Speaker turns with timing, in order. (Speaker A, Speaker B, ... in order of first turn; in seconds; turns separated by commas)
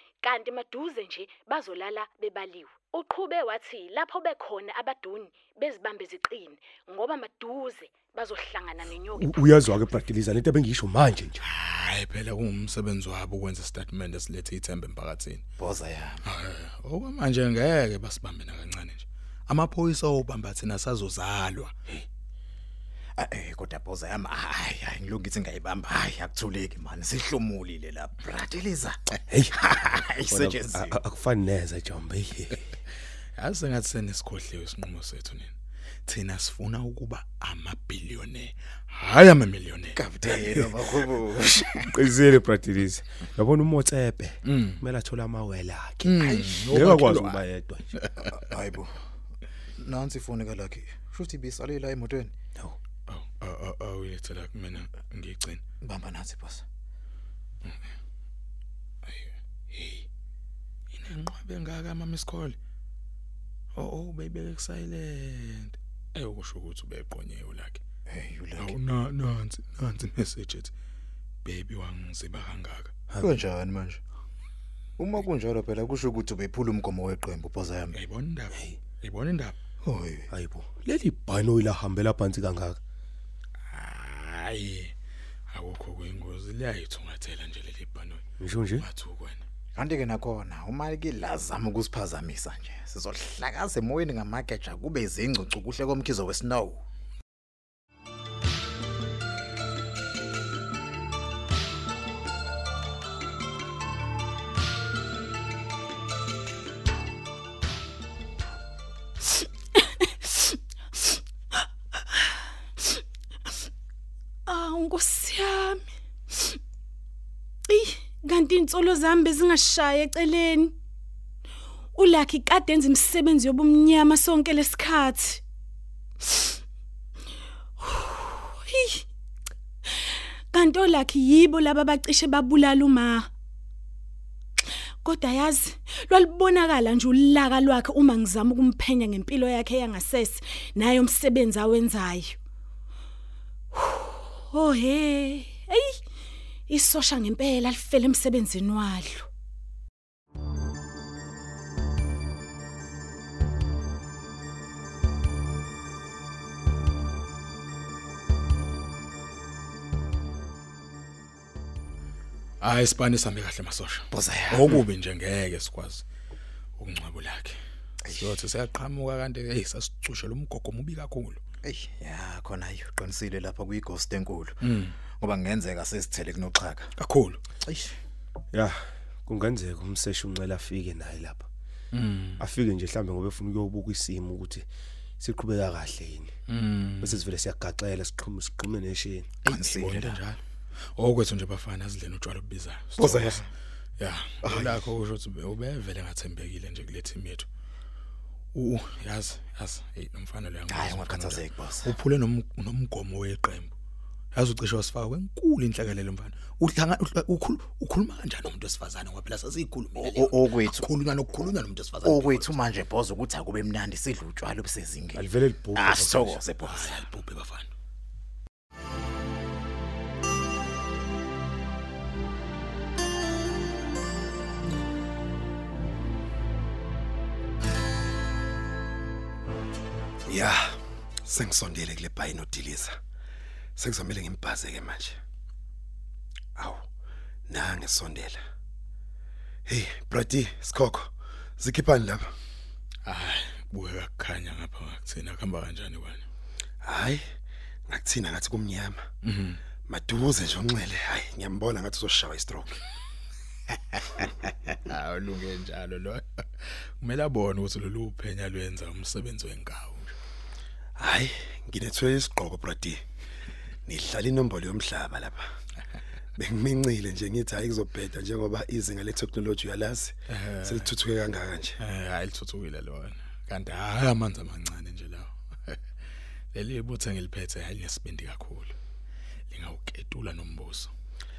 Speaker A: 0.2-9.6, Speaker B: 9.2-11.4, Speaker C: 11.4-15.5, Speaker D: 15.6-16.2, Speaker C: 16.2-21.7, Speaker D: 23.2-29.0, Speaker D: 29.5-30.9, Speaker B: 30.3-32.6, Speaker C: 33.4-35.5, Speaker C: 36.1-40.0, Speaker E: 40.0-41.0, Speaker D: 40.3-41.5, Speaker B: 41.8-48.0, Speaker C: 44.5-44.8, Speaker C: 46.0-47.4, Speaker C: 48.0-48.3, Speaker D: 48.4-49.0, Speaker D: 49.8-52.3, Speaker C: 53.1-55.6, Speaker D: 55.8-56.6, Speaker C: 59.0-60.1, Speaker C: 60.9-62.6, Speaker C: 63.8-67.8, Speaker D: 68.1-68.7, Speaker C: 68.6-70.7, Speaker C: 71.5-72.9, Speaker D: 73.2-74.0, Speaker D: 75.0-77.9, Speaker C: 77.9-79.6, Speaker D: 79.8-80.3, Speaker B: 80.3-82.8, Speaker C: 83.7-84.9, Speaker C: 85.5-88.2, Speaker B: 88.4-88.9, Speaker C: 88.8-89.4, Speaker D: 89.8-96.8, Speaker A: 109.8-110.6, Speaker A: 114.5-116.5, Speaker A: 117.7-120.7, Speaker A: 122.0-125.4, Speaker A: 127.8-129.0, Speaker A: 130.5-133.3, Speaker A: 135.1-142.4, Speaker A: 143.7-146.0, Speaker A: 146.7-149.3, Speaker C: 162.6-166.1, Speaker D: 164.1-164.6, Speaker C: 166.8-171.4, Speaker D: 171.6-174.6, Speaker C: 174.6-175.0, Speaker D: 175.2-176.9, Speaker C: 177.0-177.4, Speaker B: 178.5-181.5, Speaker C: 181.9-182.4, Speaker B: 182.4-184.7, Speaker B: 185.2-186.3, Speaker C: 186.5-187.2, Speaker B: 187.0-189.3, Speaker C: 189.4-190.4, Speaker D: 189.5-190.2, Speaker C: 191.0-193.5, Speaker E: 193.0-193.4, Speaker C: 194.0-197.5, Speaker C: 198.5-203.7, Speaker D: 200.7-201.9, Speaker C: 204.3-212.6, Speaker D: 210.0-210.8, Speaker D: 212.1-215.2, Speaker B: 215.1-216.4, Speaker D: 215.8-217.1, Speaker C: 216.6-217.7, Speaker E: 230.3-233.0, Speaker E: 233.8-235.2, Speaker E: 236.6-236.9, Speaker E: 237.5-238.4, Speaker E: 239.7-242.3, Speaker C: 243.1-246.3, Speaker E: 246.8-247.2, Speaker E: 247.9-249.0, Speaker C: 249.2-249.6, Speaker E: 249.9-252.8, Speaker C: 253.9-260.2, Speaker E: 261.0-263.0, Speaker E: 263.9-265.5, Speaker E: 266.4-271.8, Speaker C: 270.3-270.9, Speaker C: 271.8-275.8, Speaker C: 276.5-278.8, Speaker C: 279.5-280.9